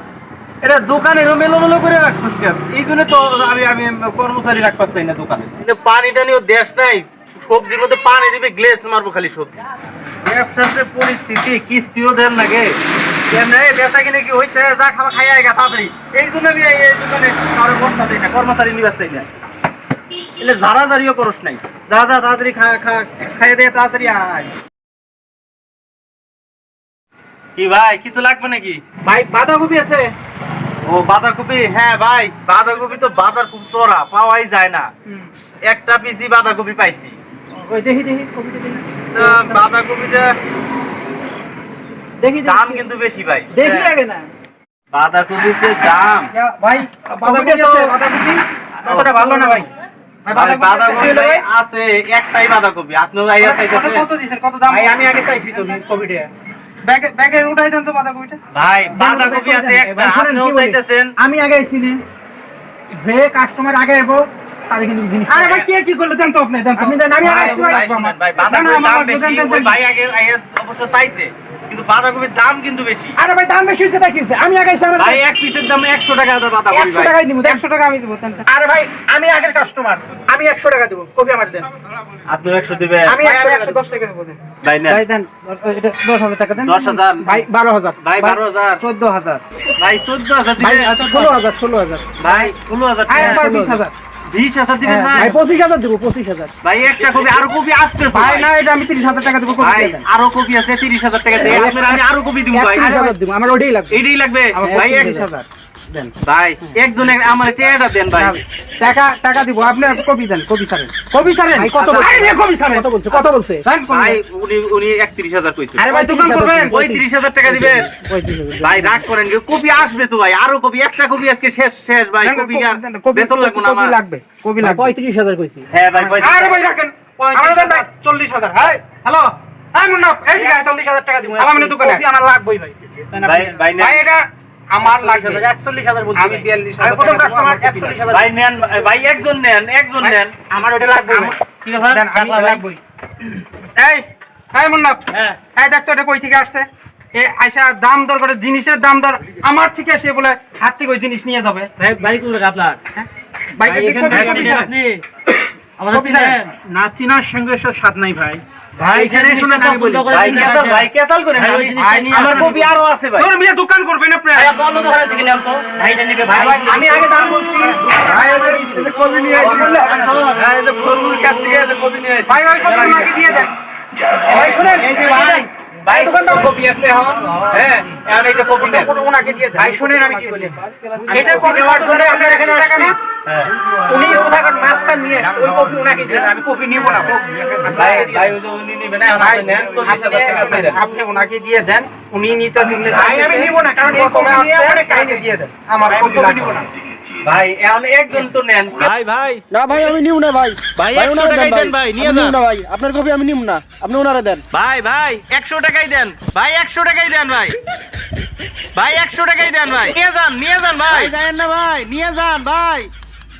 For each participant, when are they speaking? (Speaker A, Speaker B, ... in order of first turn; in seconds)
Speaker A: 0.6-9.5, 10.2-19.3, 20.4-24.5, 27.6-28.8, 30.8-34.9, 35.6-37.2, 39.1-40.3, 42.4-43.9, 44.9-46.3, 48.8-49.6, 50.3-54.1, 58.5-61.1, 67.2-73.2, 74.9-77.2, 82.3-83.2, 84.6-85.0, 86.6-87.4, 88.0-88.8, 89.8-91.3, 92.2-93.5, 94.3-95.4, 96.6-98.5, 99.6-102.9, 103.9-105.3, 106.2-108.4, 113.9-115.8, 116.7-117.9, 118.6-124.0, 125.7-126.6, 133.2-134.0, 138.1-140.3, 160.1-163.3, 169.4-173.4, 174.3-178.9, 183.2-183.5, 187.7-190.8, 197.2-199.4, 200.7-202.4, 204.5-207.6, 208.7-212.9
Speaker B: 29.0-30.1, 37.5-39.6, 42.2-42.8, 43.5-44.3, 47.2-48.0, 48.8-49.7, 54.7-56.3, 58.9-62.0, 62.9-65.6, 66.8-67.8, 73.2-75.2, 76.7-77.6, 78.5-81.7, 83.0-83.8, 87.2-88.3, 90.6-92.1, 93.1-93.8, 94.8-96.5, 101.4-104.0, 104.6-105.3, 111.5-113.7, 115.9-119.0, 124.6-126.1, 127.3-127.8, 130.3-133.6, 134.8-138.2, 140.1-141.4, 153.7-154.7, 155.9-160.1, 161.9-162.7, 166.5-170.3, 174.2-177.2, 179.5-183.0, 183.7-188.3, 192.8-195.3, 195.8-196.7
Speaker C: 46.3-48.4, 50.2-51.4, 53.4-55.8, 56.8-58.4, 65.3-69.8, 77.4-78.5, 83.2-87.0, 88.3-89.4, 93.1-93.9, 98.1-100.0, 102.8-103.2, 104.5-106.1, 108.2-114.2, 115.8-116.8, 122.2-124.9, 126.2-130.8, 131.4-132.0, 133.8-135.5, 136.2-138.0, 141.0-142.8, 143.8-145.0, 145.5-151.7, 152.9-154.7, 155.9-156.2, 161.8-162.2, 163.2-164.6, 166.3-168.6, 172.3-173.5, 178.6-183.0, 185.2-186.4, 187.0-187.6, 189.1-196.6
Speaker D: 141.6-142.6, 151.8-152.8, 153.7-155.0, 155.8-156.5, 158.8-162.6, 164.3-167.0, 169.5-170.3, 174.4-175.4
Speaker E: 168.2-170.0, 199.5-204.4